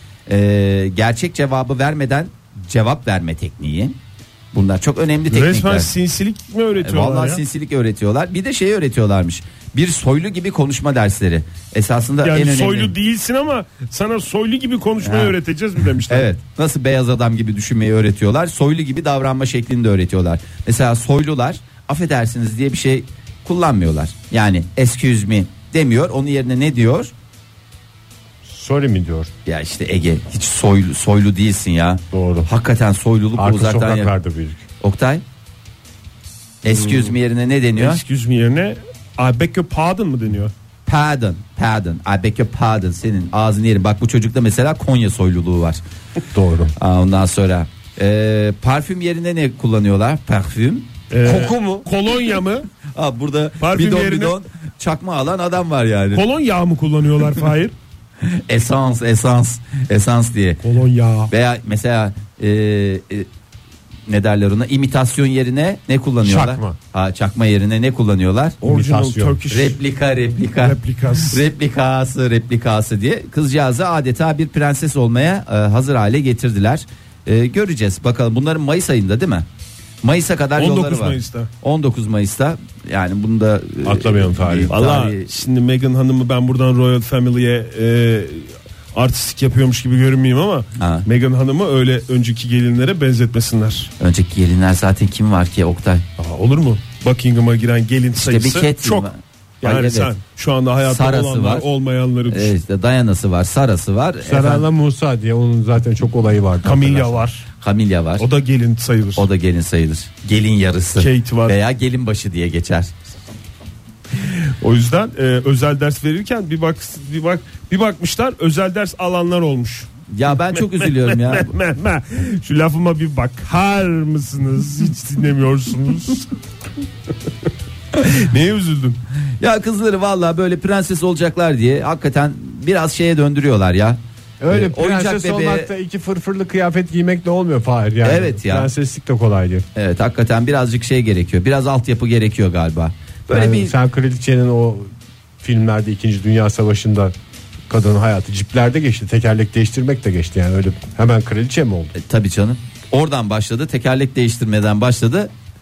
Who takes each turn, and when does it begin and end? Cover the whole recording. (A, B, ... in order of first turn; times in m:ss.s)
0:00.3-0:04.0 A
0:04.5-0:05.9 A
0:05.3-0:07.4 B
0:06.8-0:12.9 A
0:12.2-0:16.3 B
0:15.0-0:15.3 A
0:16.1-0:27.1 A
0:28.4-0:29.3 C
0:29.5-0:34.1 A
0:32.1-0:32.5 C
0:33.4-0:34.6 C
0:34.8-0:35.2 A
0:36.6-0:38.0 A
0:36.7-0:37.1 B
0:37.8-0:40.5 B
0:40.9-0:45.8 A
0:46.3-0:46.7 C
0:46.8-0:50.9 A
0:51.1-0:52.7 B
0:51.2-0:51.9 C
0:52.9-0:56.2 A
0:53.6-0:54.4 B
0:56.1-0:57.7 B
0:58.2-1:00.6 A
1:00.6-1:01.3 B
1:01.3-1:03.3 A
1:04.1-1:08.6 A
1:06.2-1:06.8 C
1:08.6-1:09.4 C
1:08.6-1:09.8 B
1:09.5-1:19.5 A
1:10.6-1:11.4 B
1:20.0-1:25.3 A
1:20.6-1:21.5 B
1:23.8-1:24.8 C
1:24.7-1:33.9 B
1:30.8-1:31.1 A
1:34.0-1:36.1 A
1:36.2-1:39.1 B
1:38.2-1:40.1 A
1:39.6-1:42.6 B
1:40.8-1:41.7 A
1:42.3-1:44.7 A
1:44.2-1:47.2 C
1:46.6-1:47.5 B
1:47.6-1:48.3 A
1:48.2-1:49.3 B
1:49.2-1:52.9 A
1:51.0-1:51.6 B
1:54.6-1:59.9 B
2:00.1-2:01.5 A
2:00.5-2:06.3 B
2:08.0-2:09.0 B
2:09.4-2:15.7 A
2:14.4-2:19.7 C
2:18.0-2:18.7 A
2:19.8-2:23.8 A
2:23.3-2:27.1 C
2:27.7-2:32.0 C
2:32.0-2:35.3 A